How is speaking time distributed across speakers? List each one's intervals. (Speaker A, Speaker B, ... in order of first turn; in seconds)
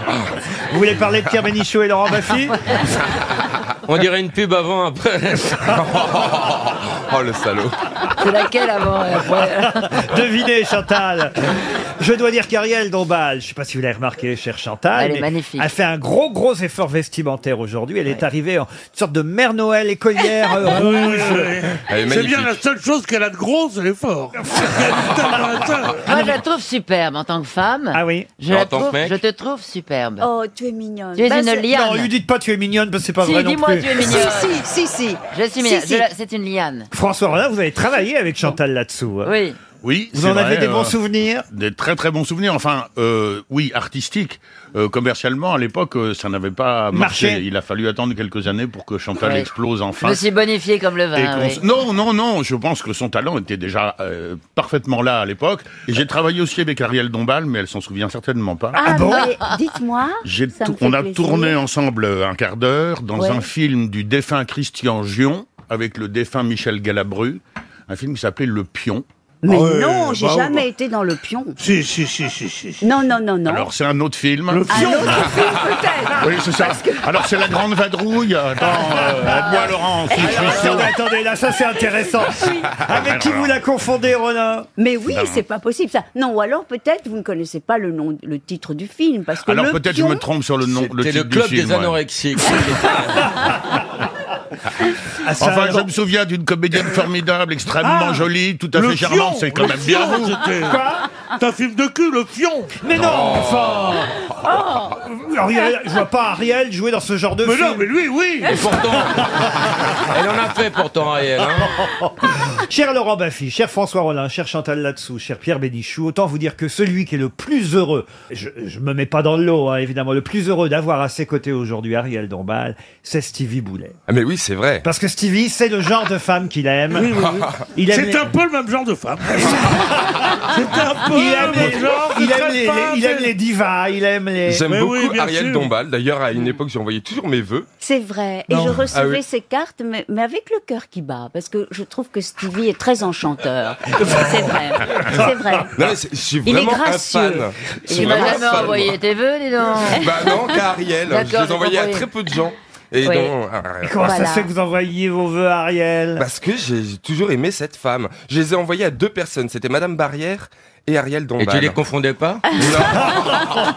Speaker A: 0.7-2.5, 9.8-11.3, 12.0-21.5, 27.9-28.3, 31.7-34.2, 36.9-39.3, 40.1-41.4, 46.9-47.4, 58.8-59.3, 78.6-79.5, 80.2-84.7, 95.2-95.9, 100.7-101.0, 102.8-104.1, 105.0-107.9, 111.4-124.0, 124.8-128.3, 131.1-134.6, 153.8-156.2
Speaker B: 3.9-5.7, 28.5-29.2, 90.6-93.3, 108.4-111.7, 161.4-162.6
Speaker C: 5.8-7.7, 21.9-22.5, 103.0-104.0, 124.1-124.8, 134.5-137.7, 138.9-139.2, 145.8-148.9, 149.8-153.9, 156.2-161.8, 162.6-162.9
Speaker D: 8.2-9.9, 14.9-15.7, 26.0-30.3, 31.2-32.1, 33.2-36.9, 39.2-39.6, 49.2-49.5, 50.0-51.6, 59.1-59.5, 147.9-150.2, 151.1-152.1
Speaker E: 20.6-26.1, 69.5-70.6, 71.6-72.8, 74.5-75.4, 97.8-98.2, 98.7-100.8, 101.4-102.7, 107.4-108.6, 126.9-133.3, 134.7-135.7, 138.5-138.8
Speaker F: 30.2-31.7, 35.6-36.0, 58.8-61.6, 63.1-63.5, 69.4-71.5, 72.8-73.7, 74.7-77.0, 79.5-80.9, 84.8-90.2, 104.5-104.9, 137.8-145.8, 146.4-148.7, 154.0-154.5, 162.5-163.1
Speaker G: 39.8-40.9, 41.5-50.2, 51.1-58.8, 60.2-69.0, 73.5-80.9, 82.9-83.5, 89.4-92.0, 95.4-100.5